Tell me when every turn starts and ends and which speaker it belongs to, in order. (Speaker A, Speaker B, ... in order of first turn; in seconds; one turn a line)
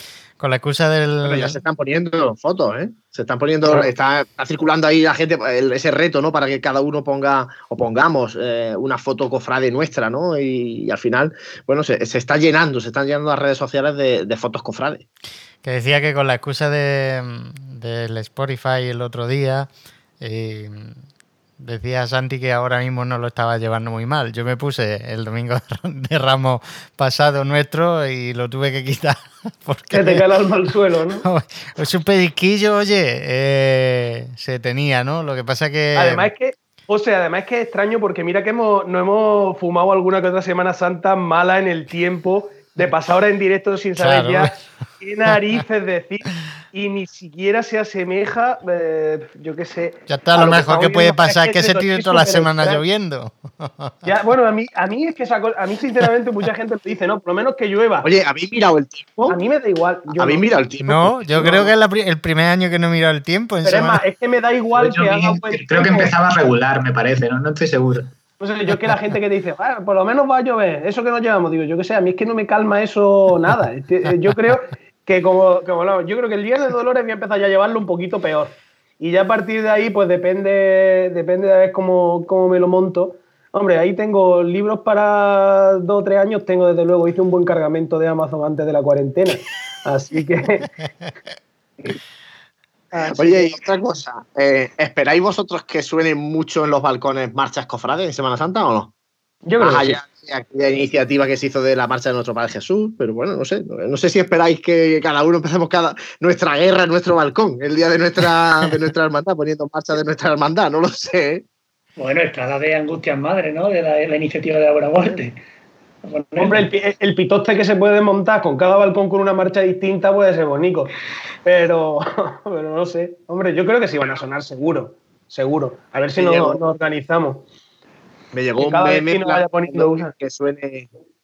Speaker A: 0.4-1.6
Speaker B: 1.2-15.0
Speaker A: 15.6-19.7
Speaker A: 20.2-21.0
Speaker A: 21.6-30.2
Speaker C: 29.9-31.2
Speaker A: 31.2-36.3
Speaker C: 35.9-52.8
Speaker A: 44.0-44.5
Speaker A: 50.1-54.0
Speaker C: 54.0-58.1
Speaker B: 58.0-59.4
Speaker C: 59.3-60.4
Speaker B: 60.1-61.7
Speaker A: 60.8-64.0
Speaker C: 63.6-66.1
Speaker D: 64.8-68.1
Speaker C: 68.4-90.7
Speaker C: 92.9-93.6
Speaker B: 93.1-98.9
Speaker C: 99.5-100.0
Speaker B: 99.6-111.4
Speaker E: 112.0-115.4
Speaker E: 116.0-116.6
Speaker C: 116.4-120.9
Speaker C: 121.4-127.5
Speaker B: 126.1-126.6
Speaker B: 128.3-130.9
Speaker C: 128.6-130.1